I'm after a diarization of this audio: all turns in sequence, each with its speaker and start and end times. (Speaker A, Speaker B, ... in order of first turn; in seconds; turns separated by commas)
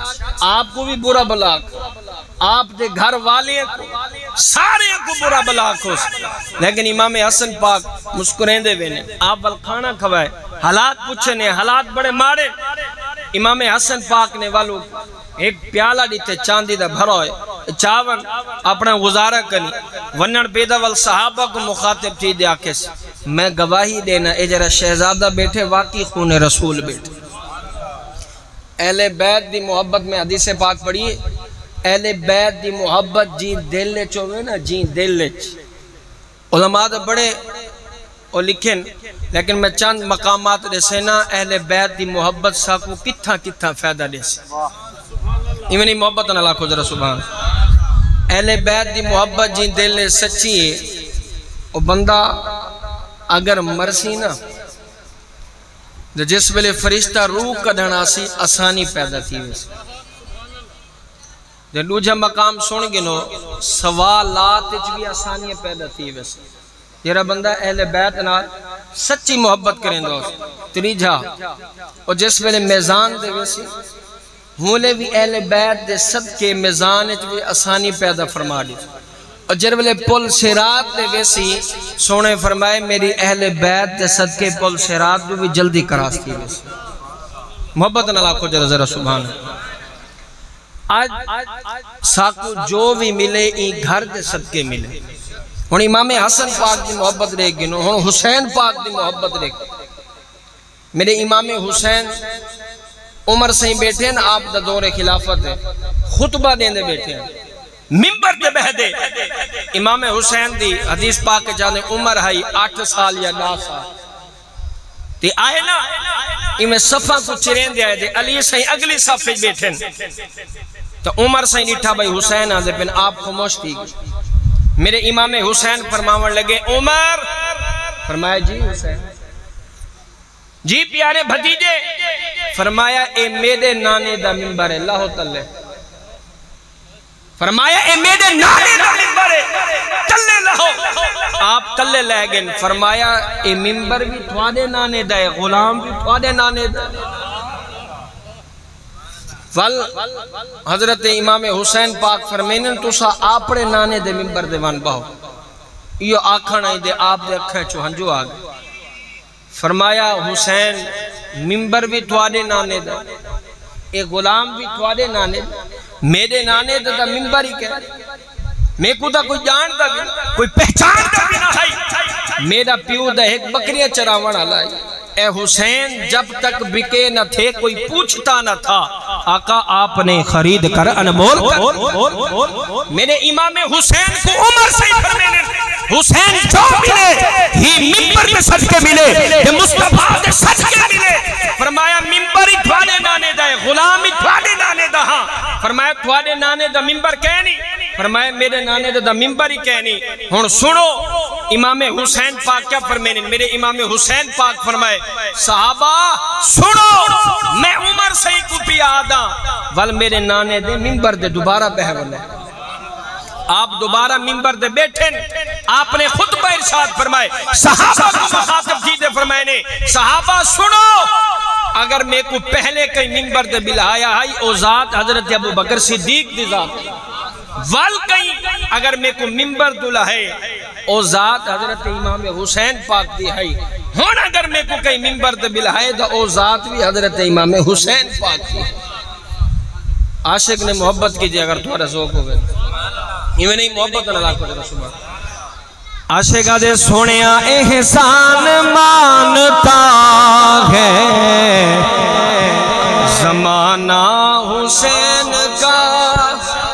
Speaker A: 0.4-1.7, Speaker A: 2.4-12.5, Speaker A: 13.3-27.1, Speaker A: 28.8-31.2, Speaker A: 31.9-35.5, Speaker A: 36.5-37.4, Speaker A: 38.3-44.4, Speaker A: 45.7-47.2, Speaker A: 48.3-50.9, Speaker A: 51.7-52.7, Speaker A: 53.3-54.4, Speaker A: 56.1-59.7, Speaker A: 61.7-66.4, Speaker A: 67.0-71.4, Speaker A: 72.1-73.7, Speaker A: 74.6-78.8, Speaker A: 79.5-86.7, Speaker A: 87.8-89.3, Speaker A: 90.9-91.5, Speaker A: 92.0-95.0, Speaker A: 95.7-99.6, Speaker A: 100.9-102.1, Speaker A: 103.3-107.3, Speaker A: 107.9-113.9, Speaker A: 115.2-115.9, Speaker A: 116.6-119.8, Speaker A: 121.0-123.9, Speaker A: 124.8-127.5, Speaker A: 128.1-129.0, Speaker A: 130.7-131.8, Speaker A: 132.5-135.5, Speaker A: 137.4-147.0, Speaker A: 149.5-155.1, Speaker A: 156.0-158.4, Speaker A: 159.5-163.0, Speaker A: 163.9-165.5, Speaker A: 166.0-167.8, Speaker A: 168.8-182.3, Speaker A: 182.9-212.3, Speaker A: 213.5-221.2, Speaker A: 221.8-226.8, Speaker A: 227.6-230.3, Speaker A: 230.9-238.7, Speaker A: 240.2-242.4, Speaker A: 243.4-244.9, Speaker A: 246.1-256.4